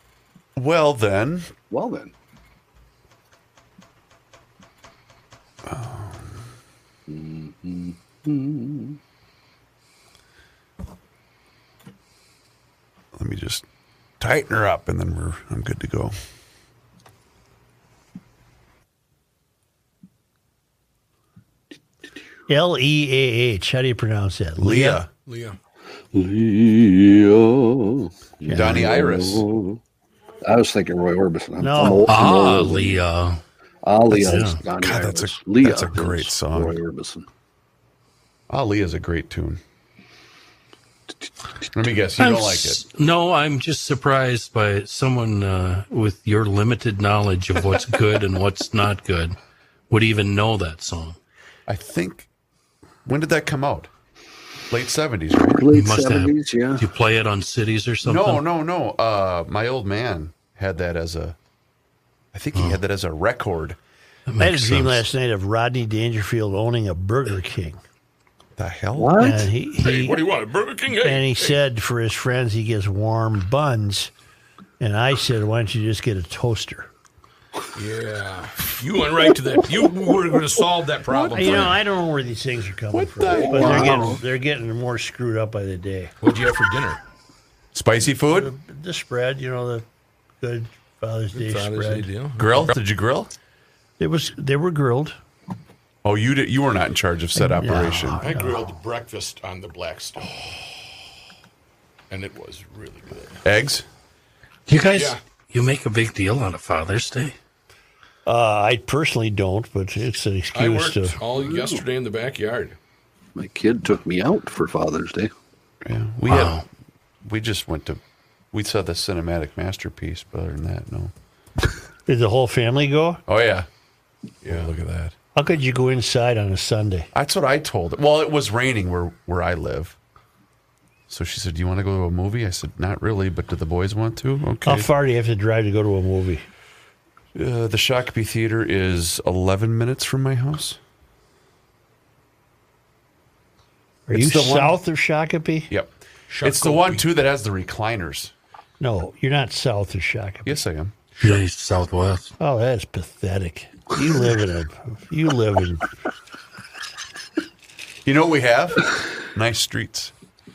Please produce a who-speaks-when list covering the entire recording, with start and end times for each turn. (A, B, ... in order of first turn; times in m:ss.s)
0:00.6-0:01.5 A
0:01.7-0:02.1 B
0:05.6-0:06.4 A
0:07.1-0:09.0 B
0:13.1-0:13.6 A
0:14.2-0:16.2 A
0:22.5-0:25.0 C
0:24.6-0:25.1 A
0:25.3-0:25.6 D
0:26.1-0:29.8 B
0:28.4-0:28.9 C
0:28.5-0:29.4 A
0:30.4-0:33.0 B
0:31.6-0:32.1 C
0:32.1-0:33.4 E
0:33.8-0:37.3 B
0:34.1-0:34.6 E
0:34.7-0:36.8 A
0:38.5-0:39.6 A
0:41.7-0:42.8 A
0:42.2-0:49.3 E
0:49.9-0:51.2 E
0:51.7-0:52.3 A
0:53.0-0:53.9 A
0:54.7-0:55.6 A
0:55.5-0:56.8 B
0:55.7-0:58.4 E
0:58.0-1:01.4 A
1:02.3-1:03.8 A
1:02.5-1:02.8 E
1:04.3-1:05.0 E
1:04.4-1:07.8 C
1:08.6-1:09.3 A
1:09.0-1:09.5 B
1:09.2-1:10.2 C
1:09.8-1:11.6 D
1:11.0-1:14.1 C
1:14.8-1:16.9 C
1:17.7-1:21.8 D
1:21.1-1:21.7 A
1:21.3-1:26.1 C
1:22.9-1:24.2 A
1:23.3-1:24.2 B
1:26.2-1:27.0 D
1:27.7-1:28.5 A
1:28.3-1:29.8 C
1:30.4-1:32.1 C
1:31.3-1:32.7 D
1:32.4-1:33.3 A
1:34.0-1:35.2 C
1:36.0-1:38.2 A
1:37.4-1:38.7 C
1:38.2-1:40.4 D
1:42.1-1:43.4 D
1:43.4-1:43.8 A
1:44.7-1:47.4 E
1:44.9-1:45.2 D
1:48.2-1:51.2 C
1:50.5-1:52.8 D
1:51.3-1:51.8 B
1:53.4-1:55.3 B
1:55.8-1:56.6 A
1:56.3-1:56.6 E
1:57.2-1:58.0 A
1:58.5-2:01.1 A
2:02.1-2:03.2 C
2:03.3-2:03.7 A
2:04.4-2:05.1 A
2:05.3-2:07.1 C
2:07.1-2:10.0 A
2:11.1-2:14.9 A
2:14.6-2:16.4 C
2:17.3-2:20.8 A
2:24.1-2:25.7 C
2:24.1-2:24.8 A
2:25.7-2:28.3 A
2:26.3-2:27.1 D
2:28.8-2:30.6 C
2:30.4-2:30.9 A
2:31.2-2:32.3 E
2:32.4-2:35.8 C
2:38.0-2:40.1 A